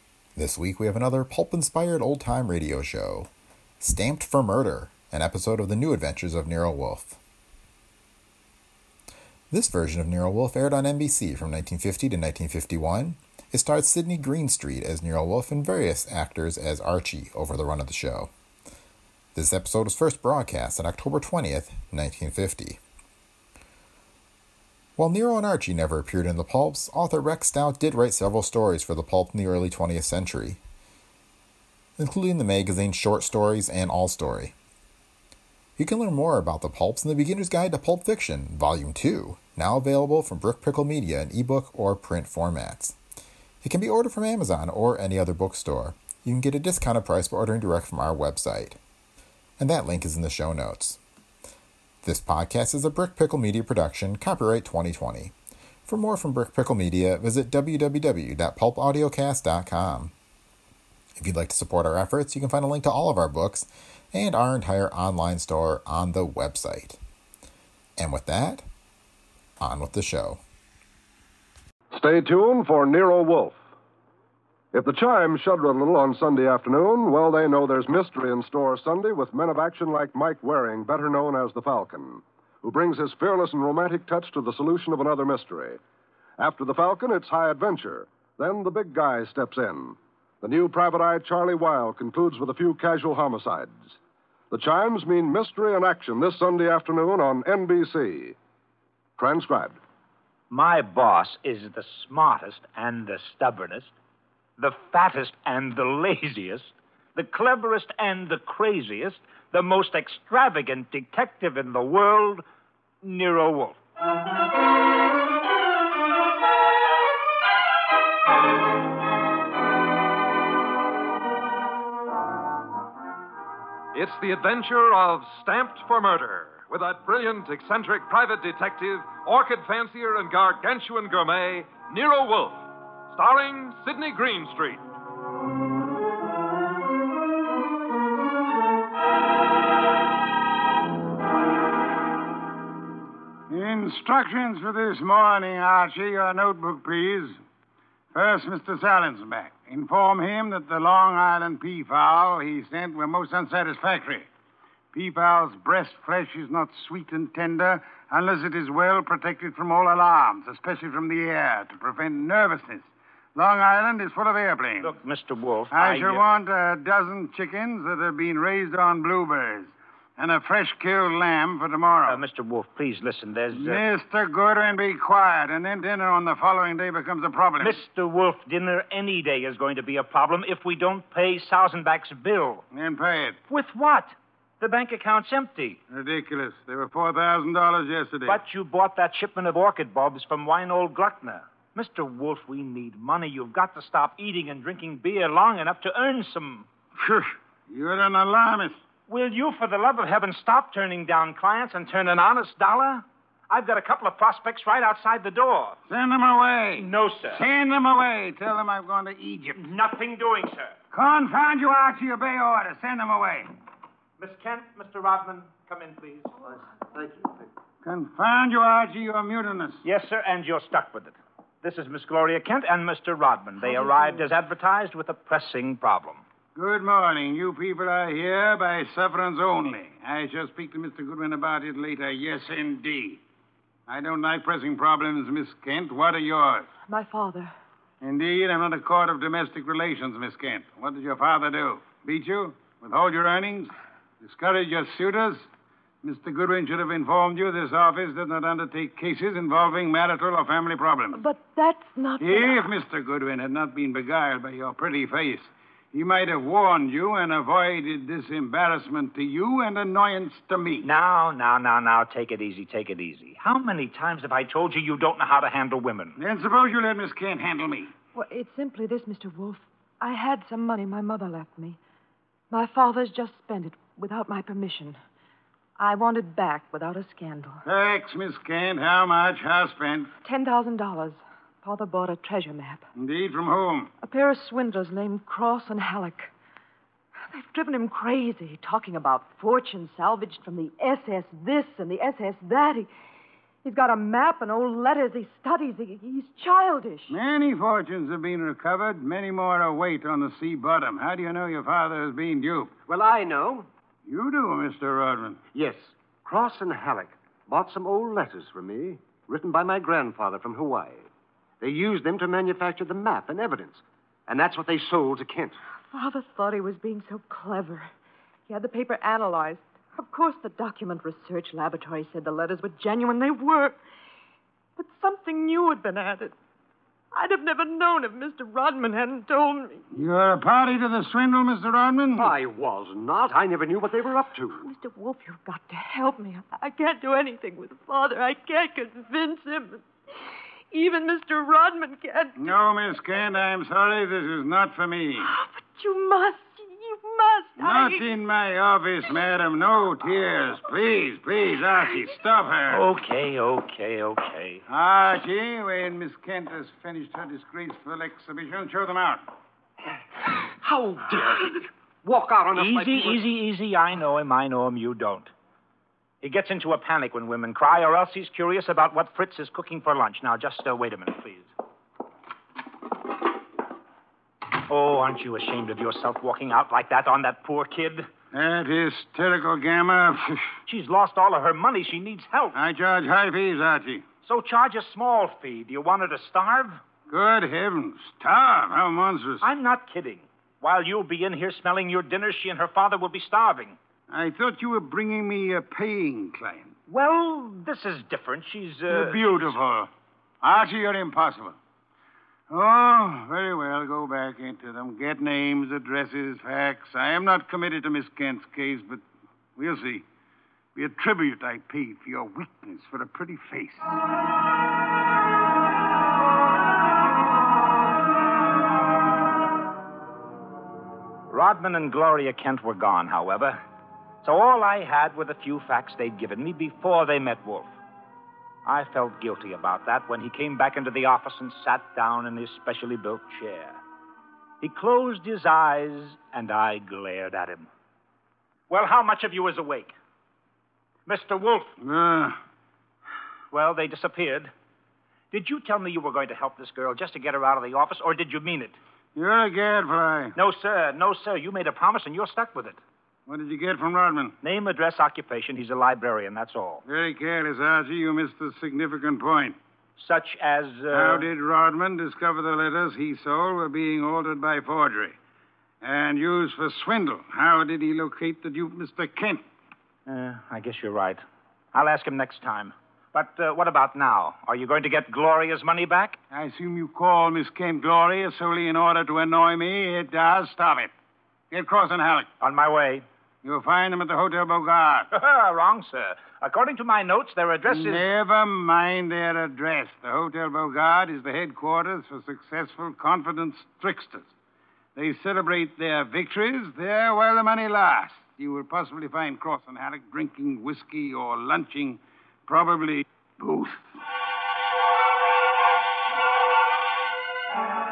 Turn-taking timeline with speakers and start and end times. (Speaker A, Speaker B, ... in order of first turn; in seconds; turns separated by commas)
Speaker A: 0.4-3.3, Speaker A: 3.8-7.2, Speaker A: 9.5-18.3, Speaker A: 19.4-22.8, Speaker A: 25.0-30.6, Speaker A: 32.0-34.5, Speaker A: 35.8-43.0, Speaker A: 43.6-48.8, Speaker A: 49.6-51.0, Speaker A: 52.0-55.3, Speaker A: 55.9-60.1, Speaker A: 61.2-67.0, Speaker A: 68.0-68.7, Speaker A: 69.6-70.4, Speaker B: 71.9-73.6, Speaker B: 74.7-85.8, Speaker B: 86.4-94.0, Speaker B: 94.5-98.4, Speaker B: 99.2-99.8, Speaker C: 100.5-103.9, Speaker C: 104.6-112.4, Speaker C: 113.0-113.8, Speaker D: 123.9-134.8, Speaker E: 143.5-147.4, Speaker E: 148.1-154.3, Speaker E: 154.9-165.0, Speaker C: 164.8-166.2, Speaker E: 165.7-172.2, Speaker C: 172.1-173.8, Speaker E: 173.5-177.8, Speaker C: 177.6-182.6, Speaker E: 182.7-183.4, Speaker C: 183.5-185.8, Speaker E: 185.9-188.4, Speaker C: 188.3-196.7, Speaker E: 197.0-198.8, Speaker C: 199.1-205.8, Speaker E: 205.9-209.6, Speaker C: 206.8-207.4, Speaker C: 209.6-210.8, Speaker E: 210.9-213.5, Speaker C: 214.2-216.3, Speaker F: 216.9-217.5, Speaker E: 217.8-219.8, Speaker C: 219.8-226.2, Speaker E: 226.6-233.2, Speaker E: 233.9-236.7, Speaker G: 236.9-237.5, Speaker E: 238.0-245.5, Speaker E: 246.0-251.2, Speaker G: 251.1-252.7, Speaker E: 252.2-260.9, Speaker C: 260.8-266.2, Speaker E: 266.2-267.9, Speaker G: 268.1-271.8, Speaker G: 272.5-275.0, Speaker G: 275.8-277.6, Speaker E: 277.6-280.1, Speaker G: 280.2-282.9, Speaker E: 283.0-283.9, Speaker G: 284.0-286.3, Speaker G: 287.3-292.9, Speaker G: 293.6-297.2, Speaker E: 297.1-302.7, Speaker F: 302.9-303.7, Speaker E: 304.1-305.4, Speaker F: 305.5-311.1, Speaker F: 311.6-315.6, Speaker G: 315.9-317.9, Speaker G: 318.5-323.8, Speaker G: 324.8-326.4, Speaker G: 327.1-329.8, Speaker E: 329.9-332.3, Speaker F: 332.2-334.6, Speaker G: 334.6-339.9, Speaker G: 340.7-342.5, Speaker E: 342.4-345.3, Speaker G: 345.2-348.1, Speaker E: 347.6-352.9, Speaker C: 352.7-354.6, Speaker E: 354.7-359.2, Speaker F: 360.5-363.2, Speaker C: 362.6-365.3, Speaker C: 366.2-371.5, Speaker C: 374.7-378.1, Speaker E: 378.3-380.5, Speaker C: 380.7-382.6, Speaker E: 382.6-384.1, Speaker C: 384.2-386.8, Speaker E: 387.1-389.4, Speaker C: 389.4-393.8, Speaker E: 394.1-396.7, Speaker C: 396.9-399.3, Speaker E: 398.9-399.9, Speaker E: 400.4-401.6, Speaker E: 402.5-409.0, Speaker E: 409.6-410.1, Speaker E: 410.8-414.0, Speaker C: 421.3-423.6, Speaker C: 424.2-427.7, Speaker C: 428.6-433.8, Speaker C: 434.6-437.7, Speaker C: 438.7-439.9, Speaker C: 441.1-441.8, Speaker E: 441.8-442.4, Speaker C: 443.5-444.5, Speaker C: 445.3-448.8, Speaker E: 449.1-450.4, Speaker C: 450.4-452.8, Speaker E: 453.3-454.4, Speaker C: 454.4-456.8, Speaker E: 456.9-459.6, Speaker C: 460.0-461.3, Speaker E: 460.9-465.2, Speaker E: 465.8-469.4, Speaker C: 470.1-471.2, Speaker C: 471.7-476.2, Speaker E: 476.3-480.9, Speaker E: 481.5-482.3, Speaker C: 482.4-483.1, Speaker E: 483.4-485.1, Speaker C: 485.1-488.0, Speaker E: 487.7-494.3, Speaker E: 495.0-504.0